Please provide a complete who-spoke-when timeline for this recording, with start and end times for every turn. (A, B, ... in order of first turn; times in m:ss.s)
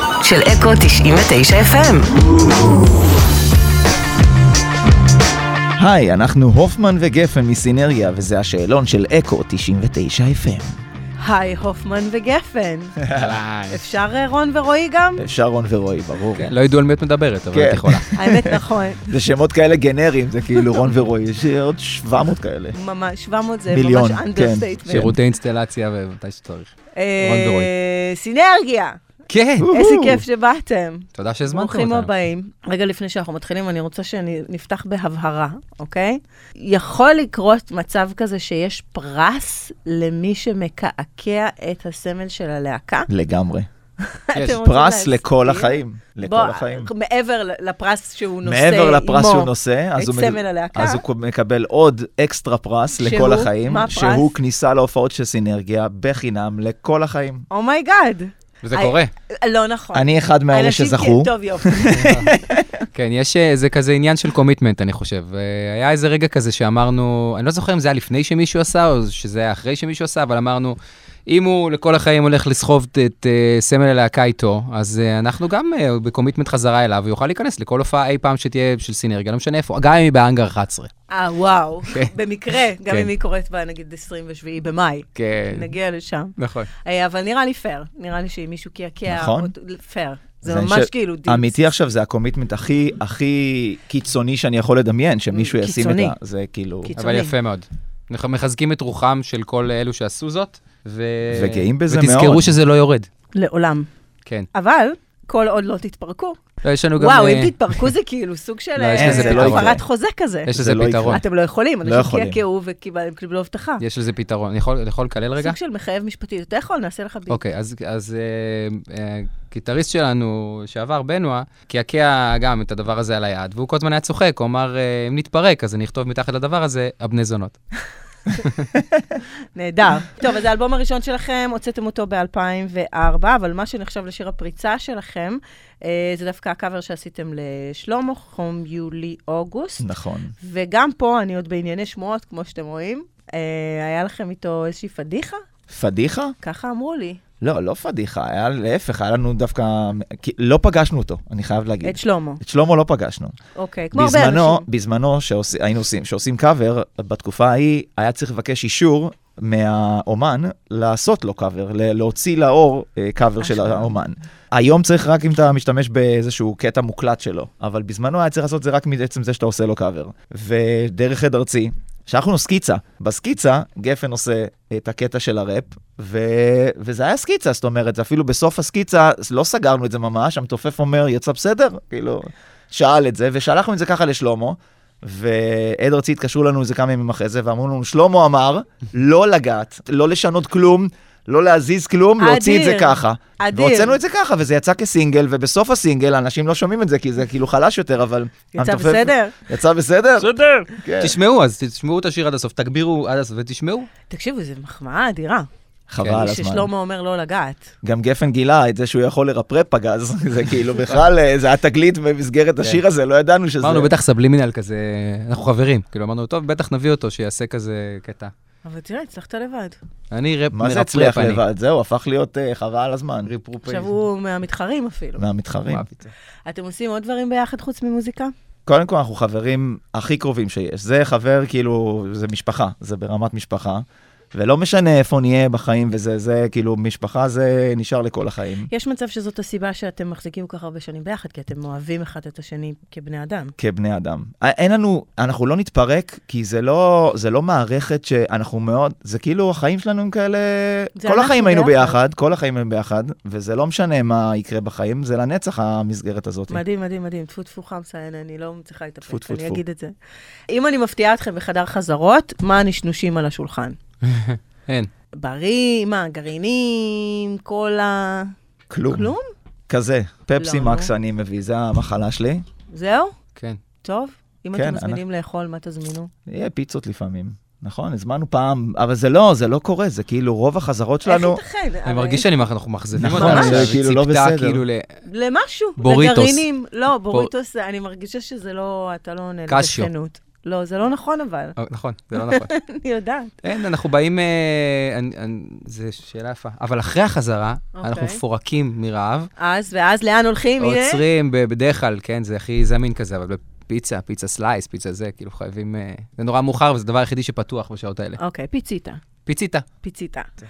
0:00.2-0:02.1 A
0:05.8-0:10.7 B
0:11.2-0:13.0 A
0:13.0-0:13.4 B
0:13.2-0:13.8 C
0:13.7-0:15.2 A
0:15.2-0:16.5 B
0:16.4-0:18.1 C
0:17.5-0:18.6 B
0:18.2-0:19.1 A
0:19.1-0:22.8 B
0:20.5-0:20.9 A
0:22.7-0:25.2 A
0:23.7-0:24.7 B
0:24.9-0:27.7 C
0:26.9-0:29.0 A
0:29.3-0:29.7 C
0:29.6-0:30.2 B
0:29.7-0:43.1 A
0:31.2-0:32.1 C
0:43.1-0:43.7 B
0:44.1-0:51.0 A
0:44.4-0:46.9 B
0:48.4-0:57.5 B
0:53.0-0:54.3 A
0:57.5-1:02.3 A
0:58.6-0:59.1 C
0:59.9-1:02.8 B
1:01.9-1:02.3 C
1:02.9-1:10.8 C
1:11.3-1:20.9 C
1:21.1-1:31.5 A
1:21.9-1:23.1 C
1:25.2-1:25.7 C
1:26.4-1:26.7 C
1:29.1-1:29.5 B
1:30.4-1:36.9 B
1:35.3-1:36.1 A
1:36.8-1:37.3 A
1:37.0-1:43.1 C
1:41.3-1:42.5 B
1:43.3-1:43.9 A
1:44.5-1:46.4 A
1:46.6-1:47.7 C
1:47.0-1:50.5 A
1:48.8-1:49.8 C
1:49.0-1:49.8 B
1:50.4-1:51.2 C
1:50.5-1:51.2 B
1:51.1-1:53.8 A
1:51.8-1:52.4 B
1:53.8-1:55.6 C
1:55.4-1:57.4 A
1:57.3-2:07.6 C
2:08.3-2:08.7 C
2:09.5-2:19.9 A
2:19.8-2:20.4 B
2:20.4-2:25.4 A
2:25.7-2:26.4 B
2:26.4-2:27.2 A
2:27.4-2:33.3 B
2:31.8-2:32.4 A
2:33.5-2:34.6 A
2:33.9-3:21.2 B
2:43.4-2:43.9 A
3:12.2-3:14.0 A
3:18.5-3:19.3 A
3:20.2-3:23.9 C
3:24.1-3:25.5 A
3:25.9-3:26.7 B
3:26.0-3:26.3 C
3:26.2-3:27.7 A
3:27.8-3:33.9 B
3:33.6-3:38.3 C
3:38.6-3:39.8 A
3:40.1-3:41.4 C
3:40.5-3:43.3 B
3:43.2-3:44.0 C
3:43.6-3:45.2 A
3:45.2-3:45.9 B
3:45.7-3:46.1 C
3:46.4-3:48.3 A
3:48.7-3:58.7 B
3:58.7-4:03.5 A
4:03.6-4:16.6 B
4:11.0-4:12.0 A
4:16.5-4:19.9 A
4:19.0-4:19.6 B
4:20.5-4:23.8 A
4:24.0-4:24.9 C
4:25.2-4:28.3 A
4:28.7-4:29.1 B
4:28.9-4:29.2 A
4:29.7-4:32.4 B
4:30.4-4:30.9 A
4:32.7-4:33.1 A
4:33.8-4:36.1 A
4:34.5-4:35.0 B
4:36.3-4:41.4 B
4:41.0-4:42.3 A
4:41.8-4:44.8 C
4:43.0-4:44.6 B
4:43.0-4:43.7 A
4:45.1-4:51.6 A
4:45.8-4:46.4 C
4:49.5-4:49.9 C
4:51.6-4:52.5 C
4:52.2-4:53.4 A
4:53.4-4:59.3 C
4:57.8-4:58.2 A
4:59.4-5:01.0 A
5:00.6-5:08.2 C
5:08.2-5:09.0 A
5:09.2-5:09.6 C
5:09.8-5:10.3 A